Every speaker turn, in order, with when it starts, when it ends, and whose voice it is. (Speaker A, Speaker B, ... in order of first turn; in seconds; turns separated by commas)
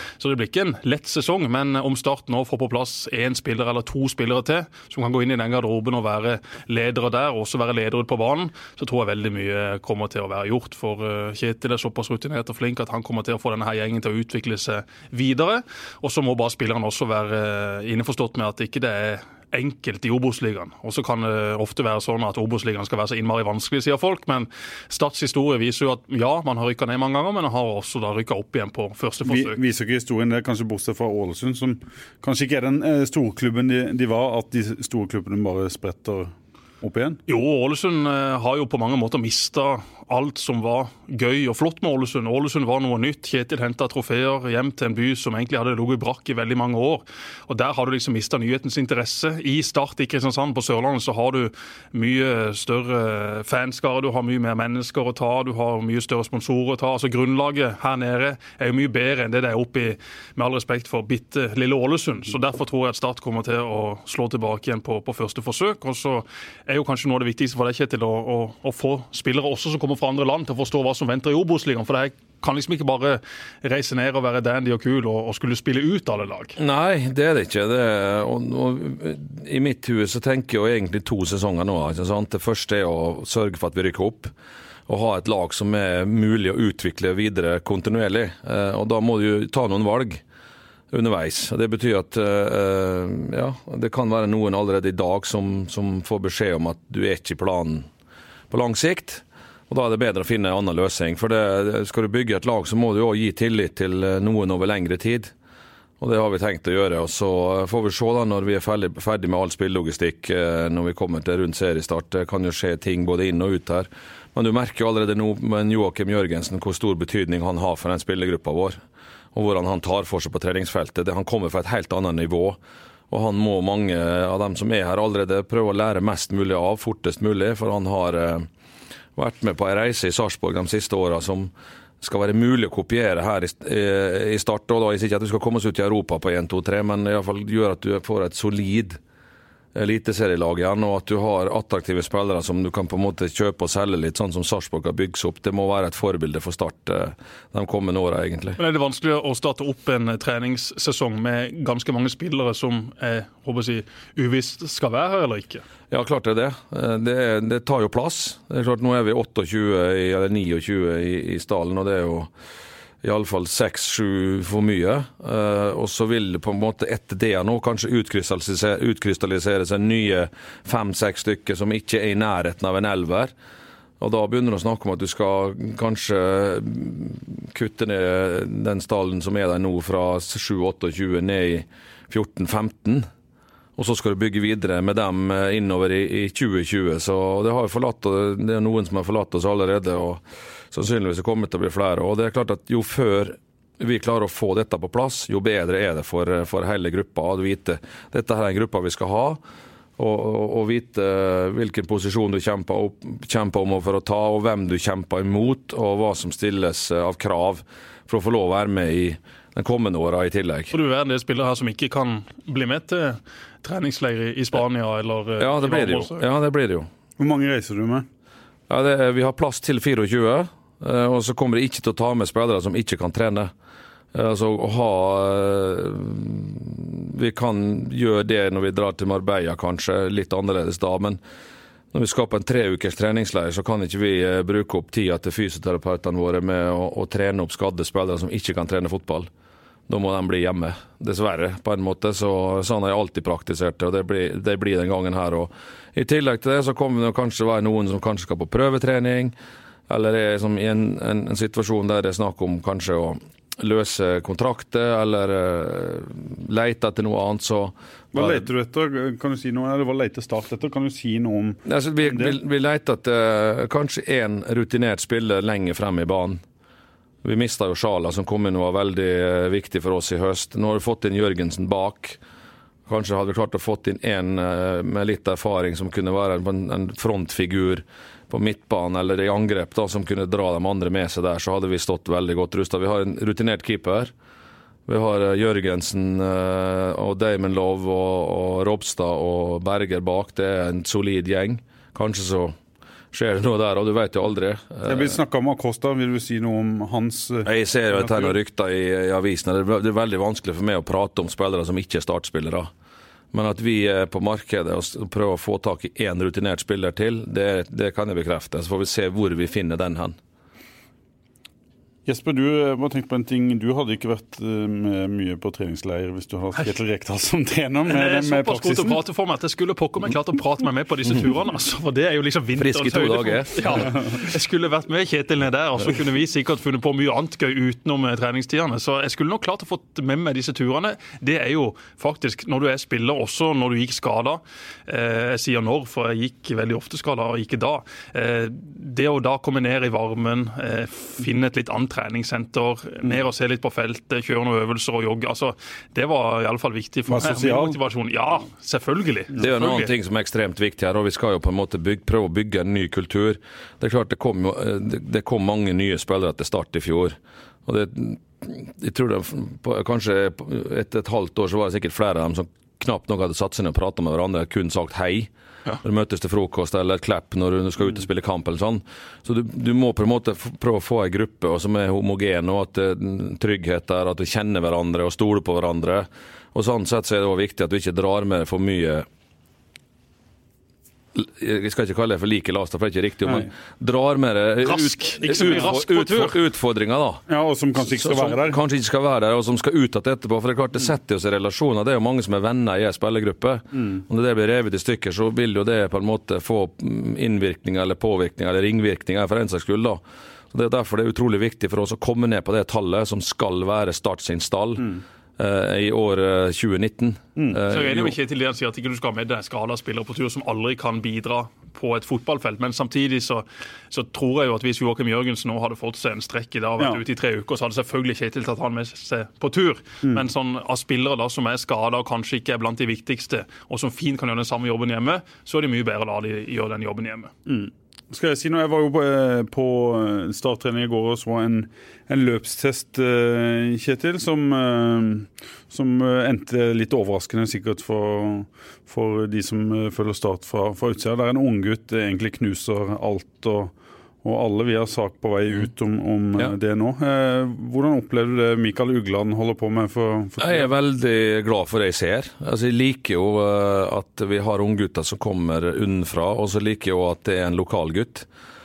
Speaker A: 0.2-29.6, Speaker B: 29.2-37.2, Speaker A: 37.3-76.5, Speaker C: 76.6-84.3, Speaker C: 84.9-90.2, Speaker C: 90.9-97.9, Speaker C: 98.5-105.3, Speaker C: 106.0-118.8, Speaker C: 119.3-122.6, Speaker C: 123.1-128.5, Speaker C: 129.2-139.0, Speaker C: 139.7-148.6, Speaker A: 148.6-155.6, Speaker C: 155.9-162.3, Speaker C: 163.0-173.3, Speaker C: 174.0-183.1, Speaker C: 183.8-199.4, Speaker C: 200.0-210.7, Speaker A: 210.7-216.2, Speaker C: 215.4-216.9, Speaker B: 217.2-218.1, Speaker C: 218.7-223.5, Speaker C: 224.1-231.2, Speaker C: 231.9-239.3, Speaker C: 239.9-249.3, Speaker C: 249.9-258.5, Speaker B: 258.1-262.4, Speaker C: 261.6-266.4, Speaker C: 267.2-272.2, Speaker C: 272.9-284.1, Speaker C: 284.9-292.6, Speaker C: 293.1-295.1, Speaker B: 294.8-298.3, Speaker C: 297.4-302.7, Speaker C: 303.3-310.2, Speaker B: 312.1-319.0, Speaker A: 317.9-349.9, Speaker C: 322.6-323.9, Speaker B: 347.1-347.8, Speaker C: 349.4-365.3, Speaker C: 365.8-379.1, Speaker C: 381.1-387.2, Speaker A: 384.6-386.4, Speaker B: 387.3-388.6, Speaker C: 387.8-400.0, Speaker C: 400.5-408.1, Speaker A: 407.7-427.3, Speaker B: 427.5-443.7, Speaker B: 444.2-450.7, Speaker C: 450.4-458.3